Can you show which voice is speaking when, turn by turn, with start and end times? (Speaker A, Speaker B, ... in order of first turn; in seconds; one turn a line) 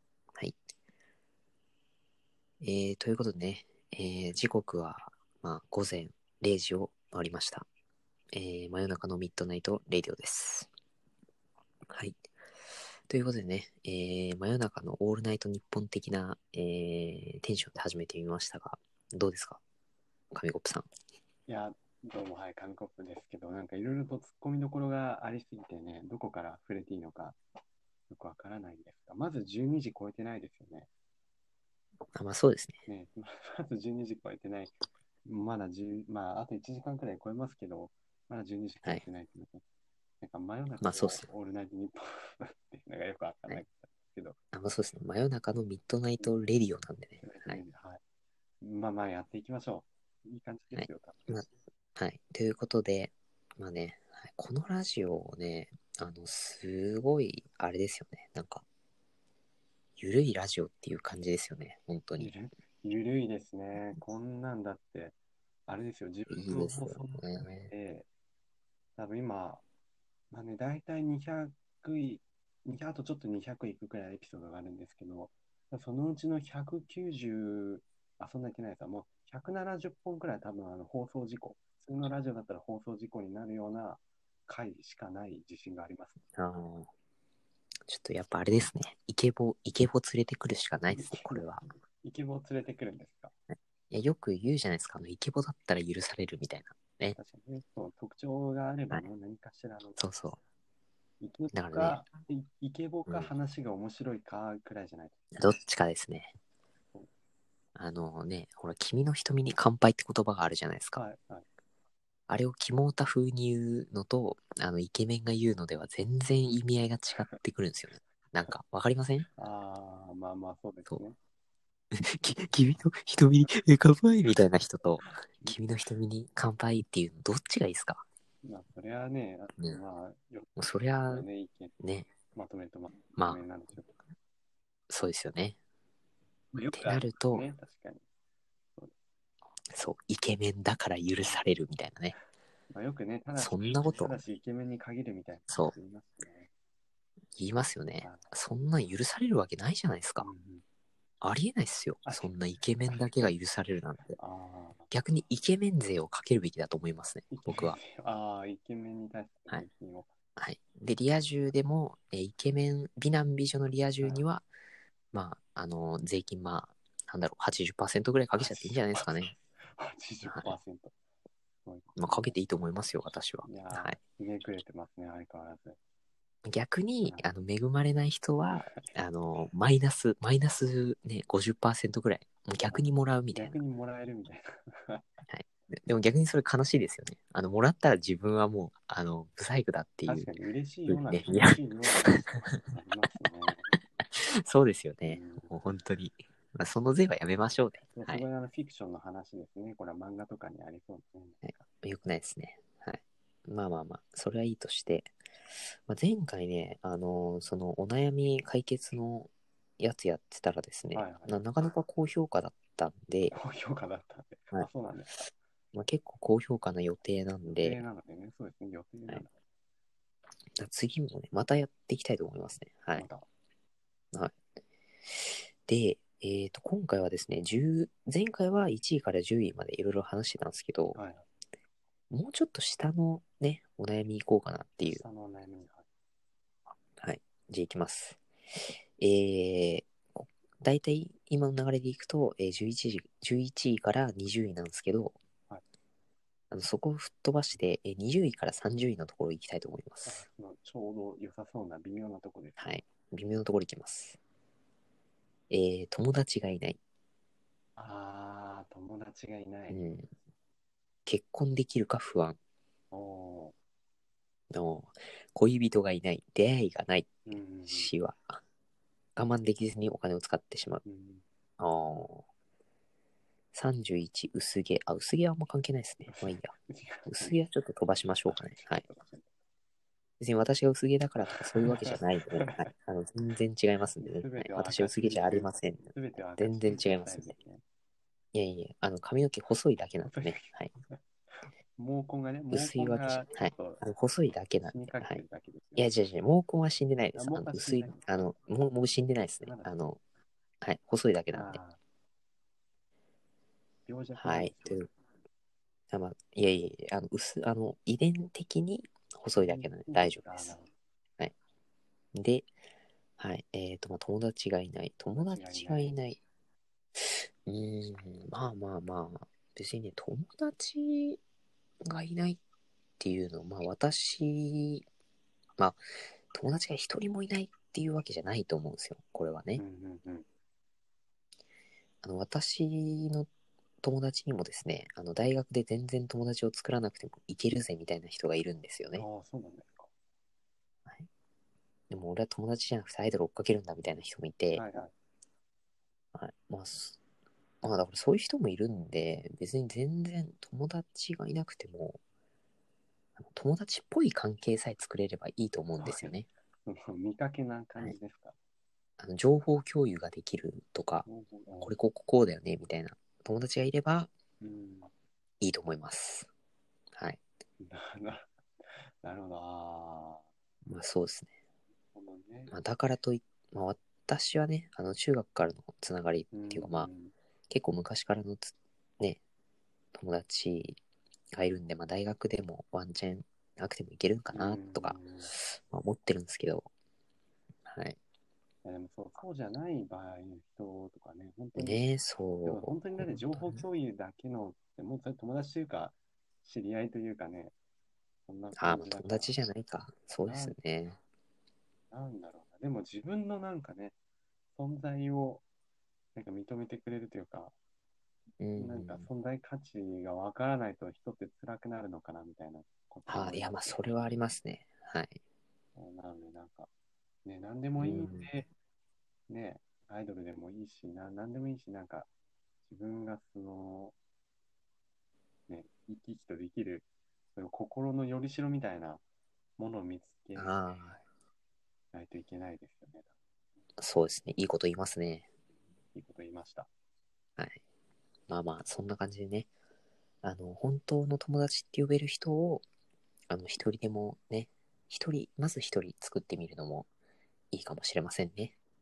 Speaker A: 2.6-7.7
Speaker A: 8.3-10.7
Speaker A: 11.9-12.2
Speaker A: 13.1-19.6
Speaker A: 20.3-20.9
Speaker B: 21.5-27.4
Speaker B: 28.1-30.9
Speaker A: 32.1-32.8
Speaker B: 32.9-39.6
Speaker B: 40.2-44.4
Speaker A: 40.8-41.3
Speaker A: 44.5-47.6
Speaker B: 47.2-48.0
Speaker B: 48.6-51.4
Speaker A: 50.7-58.6
Speaker A: 60.0-62.3
Speaker B: 62.2-65.1
Speaker B: 65.7-68.1
Speaker A: 66.3-67.7
Speaker B: 69.0-69.6
Speaker B: 70.3-86.2
Speaker A: 86.4-86.9
Speaker A: 87.9-91.6
Speaker B: 90.9-93.3
Speaker A: 93.5-97.2
Speaker B: 97.1-100.1
Speaker A: 100.0-100.4
Speaker B: 101.2-105.2
Speaker A: 101.5-102.0
Speaker A: 103.1-103.3
Speaker A: 105.4-106.3
Speaker A: 107.8-111.1
Speaker B: 110.9-111.5
Speaker A: 112.3-119.3
Speaker B: 119.4-121.2
Speaker A: 121.9-128.0
Speaker B: 125.0-125.6
Speaker B: 128.4-131.8
Speaker A: 130.6-131.3
Speaker A: 131.8-132.1
Speaker B: 132.3-133.9
Speaker A: 133.2-133.4
Speaker A: 134.9-135.6
Speaker B: 136.5-138.0
Speaker A: 136.7-137.5
Speaker A: 139.7-142.2
Speaker B: 141.2-141.5
Speaker B: 142.7-146.5
Speaker A: 143.4-144.2
Speaker A: 145.5-145.7
Speaker A: 147.4-150.3
Speaker B: 148.0-148.3
Speaker B: 150.2-150.6
Speaker A: 151.2-154.2
Speaker B: 152.1-152.3
Speaker B: 152.8-153.1
Speaker B: 154.2-154.9
Speaker A: 154.9-157.8
Speaker B: 157.3-160.1
Speaker A: 160.4-164.5
Speaker B: 164.0-164.2
Speaker A: 165.1-169.3
Speaker B: 168.4-170.9
Speaker A: 170.2-170.6
Speaker B: 171.7-172.4
Speaker A: 172.0-174.0
Speaker B: 173.4-175.8
Speaker A: 176.4-183.6
Speaker B: 178.5-178.8
Speaker B: 182.7-185.1
Speaker A: 185.3-190.3
Speaker B: 190.1-193.8
Speaker A: 190.9-192.6
Speaker A: 194.2-198.3
Speaker B: 195.1-195.6
Speaker B: 197.9-201.6
Speaker A: 201.4-205.1
Speaker A: 205.9-213.4
Speaker B: 210.9-211.4
Speaker B: 213.3-215.3
Speaker A: 215.7-217.8
Speaker B: 217.5-219.3
Speaker A: 220.6-223.1
Speaker B: 223.0-223.2
Speaker A: 225.1-231.0
Speaker B: 230.9-231.2
Speaker A: 232.1-235.0
Speaker B: 234.8-235.8
Speaker A: 237.0-238.2
Speaker A: 239.0-245.2
Speaker A: 246.5-250.2
Speaker B: 250.1-252.8
Speaker A: 252.6-254.2
Speaker A: 255.5-256.8
Speaker B: 257.8-259.9
Speaker A: 259.7-260.1
Speaker A: 261.1-262.4
Speaker B: 262.9-263.6
Speaker A: 264.5-267.1
Speaker B: 267.2-267.9
Speaker A: 267.6-268.4
Speaker A: 269.2-270.8
Speaker B: 270.8-271.2
Speaker A: 271.6-272.2
Speaker A: 273.5-276.5
Speaker B: 276.1-277.4
Speaker A: 277.1-278.9
Speaker B: 278.3-279.3
Speaker A: 280.2-287.3
Speaker B: 281.5-282.6
Speaker B: 284.0-287.6
Speaker A: 288.3-290.7
Speaker B: 290.1-293.9
Speaker A: 292.5-295.2
Speaker B: 294.6-295.9
Speaker A: 295.8-300.0
Speaker B: 297.1-298.3
Speaker B: 299.4-299.7
Speaker A: 300.6-301.6
Speaker B: 301.3-301.8
Speaker B: 303.9-304.9
Speaker A: 304.1-304.9
Speaker A: 305.9-310.6
Speaker B: 309.4-310.7
Speaker A: 312.1-312.5
Speaker A: 313.2-316.2
Speaker B: 315.1-315.9
Speaker A: 317.0-321.2
Speaker A: 321.8-322.4
Speaker A: 323.0-324.9
Speaker A: 325.6-329.6
Speaker B: 329.6-330.2
Speaker A: 332.0-333.3
Speaker A: 333.8-339.1
Speaker B: 338.9-339.9
Speaker A: 341.9-344.6
Speaker B: 344.6-344.9
Speaker A: 346.1-347.0
Speaker A: 347.6-352.0
Speaker A: 353.2-356.3
Speaker B: 355.8-358.4
Speaker A: 359.0-361.1
Speaker B: 361.1-361.8
Speaker A: 361.6-364.1
Speaker B: 364.4-364.9
Speaker A: 365.4-366.3
Speaker A: 366.9-367.2
Speaker B: 367.6-370.2
Speaker A: 370.7-371.3
Speaker B: 371.9-372.6
Speaker A: 372.5-376.9
Speaker B: 376.3-377.1
Speaker A: 377.5-379.2
Speaker A: 379.9-380.8
Speaker A: 381.3-386.7
Speaker B: 384.3-385.3
Speaker A: 387.7-388.0
Speaker B: 388.6-391.9
Speaker A: 391.6-393.6
Speaker B: 392.4-397.5
Speaker B: 398.3-399.4
Speaker A: 398.6-401.0
Speaker B: 400.2-400.6
Speaker B: 401.9-403.9
Speaker B: 404.6-405.4
Speaker B: 406.1-407.5
Speaker A: 408.4-409.1
Speaker B: 408.6-413.8
Speaker A: 413.1-415.2
Speaker B: 415.8-416.7
Speaker B: 417.2-418.5
Speaker A: 417.8-418.3
Speaker B: 419.3-422.1
Speaker B: 422.7-423.9
Speaker B: 425.5-429.0
Speaker B: 429.6-430.6
Speaker A: 430.4-431.0
Speaker B: 431.9-433.1
Speaker A: 433.8-435.3
Speaker B: 435.9-436.7
Speaker A: 438.3-439.5
Speaker A: 440.2-442.6
Speaker A: 443.3-446.9
Speaker A: 447.5-448.5